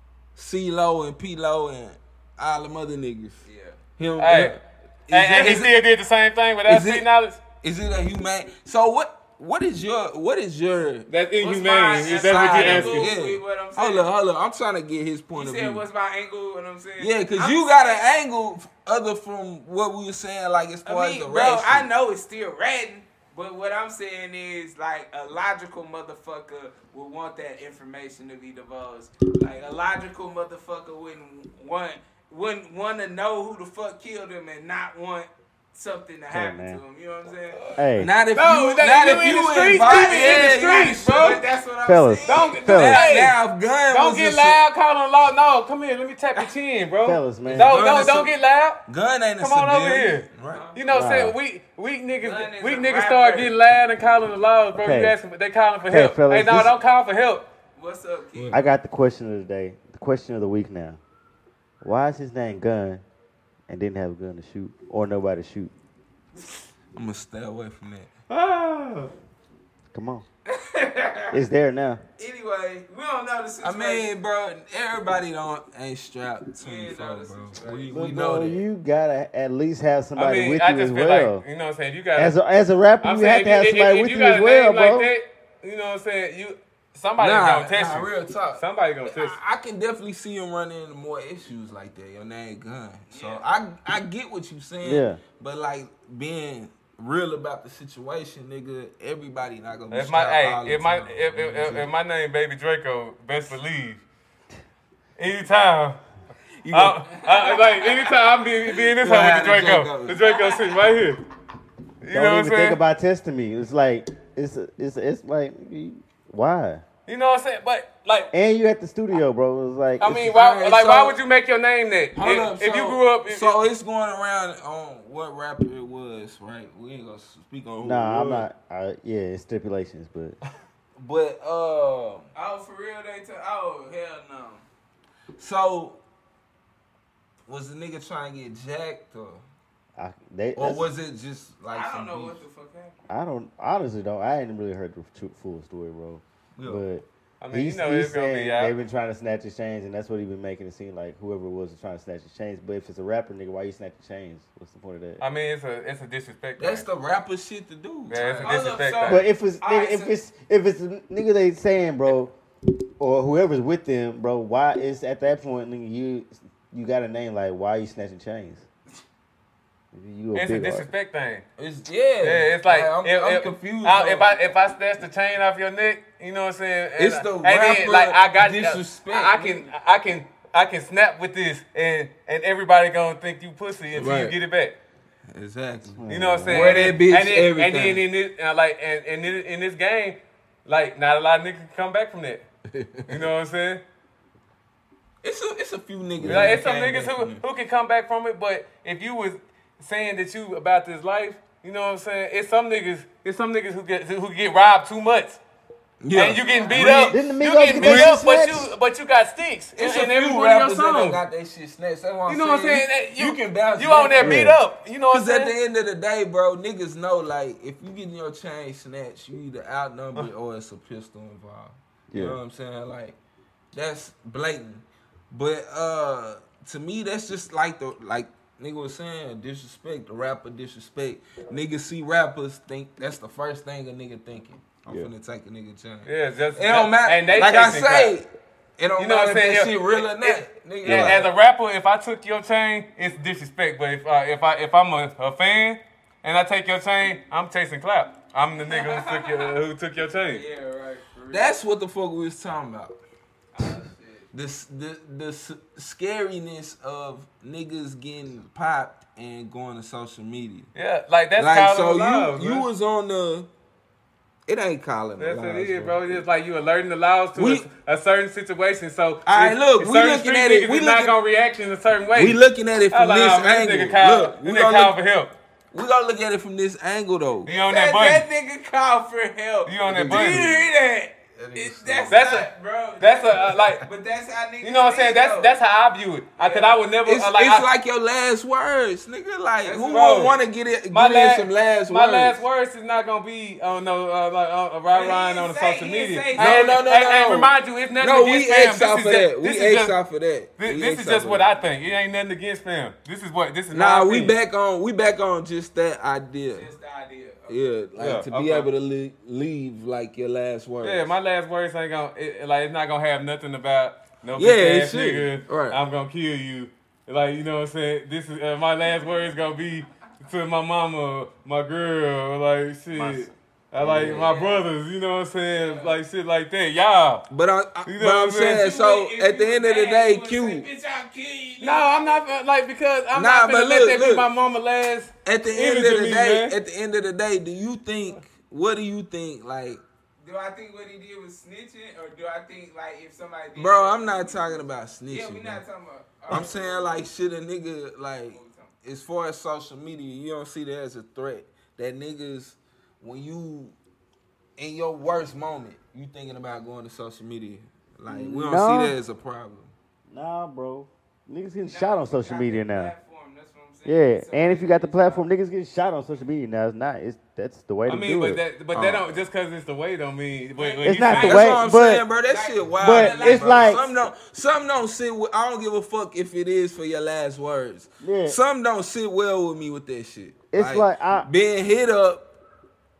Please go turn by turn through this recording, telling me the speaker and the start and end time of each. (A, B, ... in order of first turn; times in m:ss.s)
0:00.4-0:03.4 A
0:03.4-0:03.8 B
0:04.0-0:05.8 A
0:04.2-0:04.6 C
0:05.1-0:07.4 C
0:06.7-0:07.0 A
0:07.6-0:11.1 A
0:11.1-0:13.1 C
0:11.4-0:14.1 B
0:12.0-0:15.8 A
0:15.4-0:18.1 B
0:17.0-0:21.9 A
0:20.8-0:37.6 B
0:36.3-0:36.8 D
0:37.6-0:41.4 C
0:37.8-0:38.1 D
0:38.0-0:41.4 A
0:39.6-0:43.1 B
0:41.8-0:43.0 D
0:42.2-0:43.4 C
0:42.9-0:44.6 A
0:43.9-0:48.8 C
0:47.0-0:47.8 D
0:47.5-0:48.3 A
0:48.9-0:50.7 A
0:49.4-0:57.5 C
0:50.5-0:50.8 B
0:50.9-0:51.4 D
0:52.2-0:53.5 B
0:54.7-0:55.2 D
0:55.8-0:56.7 D
0:57.8-0:58.6 B
0:58.4-0:58.6 A
0:58.5-1:01.0 D
1:01.8-1:03.0 D
1:03.7-1:05.7 D
1:06.9-1:08.1 A
1:08.3-1:09.1 C
1:09.9-1:10.2 D
1:10.5-1:11.4 B
1:11.3-1:12.0 D
1:12.2-1:14.1 B
1:13.6-1:18.6 A
1:16.6-1:18.0 B
1:17.9-1:21.4 D
1:20.2-1:22.4 C
1:22.2-1:25.1 D
1:23.0-1:29.4 C
1:27.2-1:41.9 A
1:33.1-1:33.5 B
1:34.8-1:35.2 D
1:39.9-1:44.0 C
1:45.2-1:46.0 C
1:46.6-1:47.0 A
1:46.7-1:51.2 C
1:47.2-1:48.2 B
1:49.0-1:50.2 A
1:50.2-1:50.8 B
1:52.0-1:52.8 C
1:52.1-1:56.8 D
1:57.1-1:58.3 C
1:58.3-2:00.3 D
2:00.0-2:03.6 C
2:00.3-2:01.2 A
2:02.2-2:08.5 A
2:07.8-2:10.4 D
2:11.0-2:12.3 A
2:12.4-2:14.7 B
2:15.4-2:16.0 A
2:17.5-2:19.4 A
2:20.0-2:20.9 D
2:20.6-2:22.4 A
2:21.7-2:23.0 B
2:23.1-2:35.2 D
2:26.6-2:26.8 A
2:27.4-2:28.8 C
2:35.2-2:36.8 C
2:36.6-2:38.6 A
2:38.1-2:39.3 C
2:38.1-2:40.2 B
2:39.0-2:42.3 D
2:43.0-2:48.6 D
2:49.9-2:50.9 D
2:50.3-2:51.4 C
2:51.6-2:54.3 A
2:52.2-3:04.8 C
2:57.0-2:59.7 A
3:03.9-3:04.4 A
3:05.3-3:08.0 A
3:05.9-3:07.0 D
3:06.1-3:12.5 C
3:12.7-3:13.2 A
3:13.1-3:13.8 C
3:15.2-3:17.4 A
3:16.2-3:16.6 D
3:16.2-3:25.4 C
3:26.0-3:28.1 A
3:26.1-3:31.2 C
3:26.4-3:26.8 B
3:26.7-3:28.7 D
3:29.8-3:34.5 A
3:32.3-3:35.5 C
3:34.2-3:34.6 D
3:35.1-3:43.2 A
3:42.1-3:42.4 D
3:43.7-4:01.3 A
3:56.0-3:58.2 C
3:59.0-4:10.4 C
4:00.8-4:01.2 D
4:08.6-4:09.5 B
4:10.3-4:11.5 B
4:11.3-4:13.0 A
4:13.5-4:14.3 B
4:14.3-4:20.7 A
4:20.8-4:22.7 C
4:21.4-4:23.5 A
4:24.5-4:26.2 A
4:25.2-4:35.3 C
4:27.4-4:27.7 A
4:29.3-4:31.1 A
4:32.2-4:35.0 A
4:35.7-4:37.5 A
4:37.4-4:38.3 C
4:37.5-4:45.5 B
4:39.7-4:40.5 C
4:39.9-4:40.6 A
4:41.4-4:42.2 A
4:42.1-4:43.9 C
4:44.6-4:47.7 C
4:46.4-4:46.9 B
4:47.1-4:52.4 A
4:49.6-4:50.4 B
4:49.9-4:50.4 C
4:50.9-5:00.0 C
4:54.9-4:56.9 B
4:56.4-5:01.5 A
5:00.6-5:04.4 C
5:03.7-5:06.7 A
5:06.5-5:07.6 B
5:07.5-5:11.1 A
5:08.0-5:08.7 C
5:10.8-5:27.3 C
5:14.4-5:15.8 A
5:23.0-5:23.2 D
5:23.8-5:24.2 D
5:23.8-5:24.3 A
5:24.1-5:24.6 B
5:25.5-5:26.0 B
5:27.3-5:30.7 A
5:27.8-5:28.7 C
5:28.5-5:32.2 B
5:31.6-5:36.6 C
5:33.1-5:34.3 A
5:35.2-5:39.8 A
5:40.2-5:47.1 B
5:43.6-5:45.6 A
5:46.3-5:53.8 A
5:48.3-5:48.7 B
5:54.6-5:59.7 A
5:58.1-5:59.0 D
6:00.1-6:02.9 D
6:01.6-6:05.3 B
6:03.8-6:08.4 D
6:07.9-6:11.5 C
6:08.7-6:09.2 A
6:10.6-6:14.0 B
6:10.8-6:12.0 D
6:11.2-6:22.3 A
6:12.8-6:13.8 D
6:18.0-6:18.4 D
6:20.5-6:21.3 D